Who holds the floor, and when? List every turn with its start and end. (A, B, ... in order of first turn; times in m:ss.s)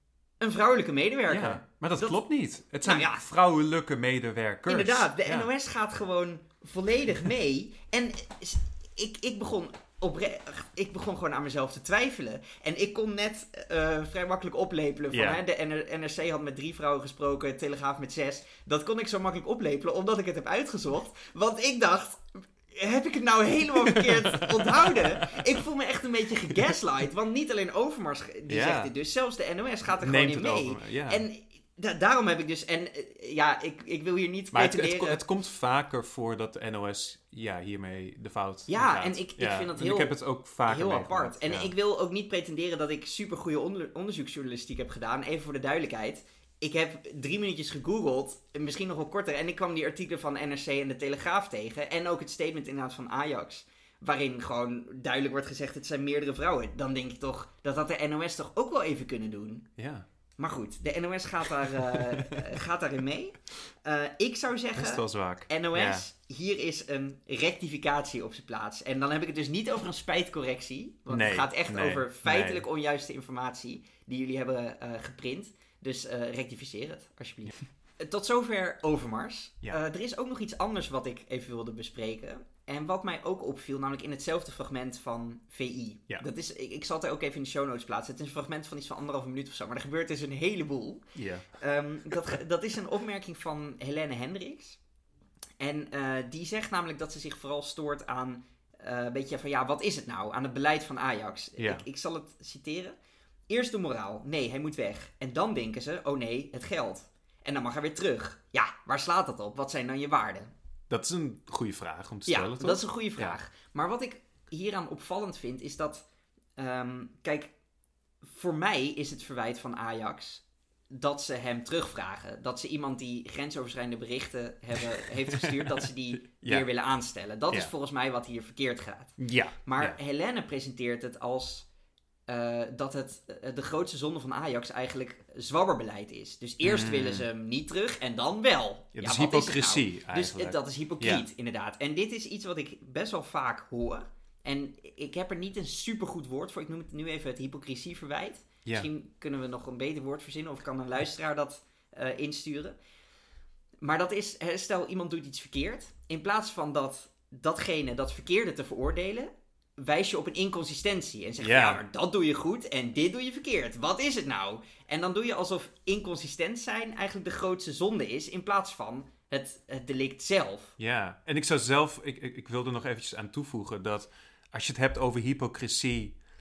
0:00.4-0:02.2 A
0:01.3-0:05.5 B
0:02.8-0:03.2 A
0:04.7-0:35.2 A
0:15.1-0:15.4 B
0:23.8-0:25.4 B
0:28.5-0:28.9 B
0:29.9-0:31.2 B
0:34.5-0:41.7 B
0:38.7-0:59.7 A
0:59.8-1:00.0 B
1:00.4-1:34.8 A
1:01.9-1:02.4 B
1:04.8-1:06.0 B
1:11.1-1:12.6 B
1:31.1-1:31.5 B
1:35.6-1:42.9 A
1:41.6-1:41.8 B
1:43.5-1:50.5 A
1:50.9-1:53.4 B
1:52.3-1:56.0 A
1:56.6-1:57.5 A
1:58.2-2:11.7 A
2:04.9-2:06.6 B
2:09.2-2:10.0 B
2:12.3-2:32.7 A
2:16.6-2:17.3 B
2:19.0-2:21.2 B
2:33.8-2:50.7 A
2:41.4-2:41.8 B
2:50.8-2:56.2 B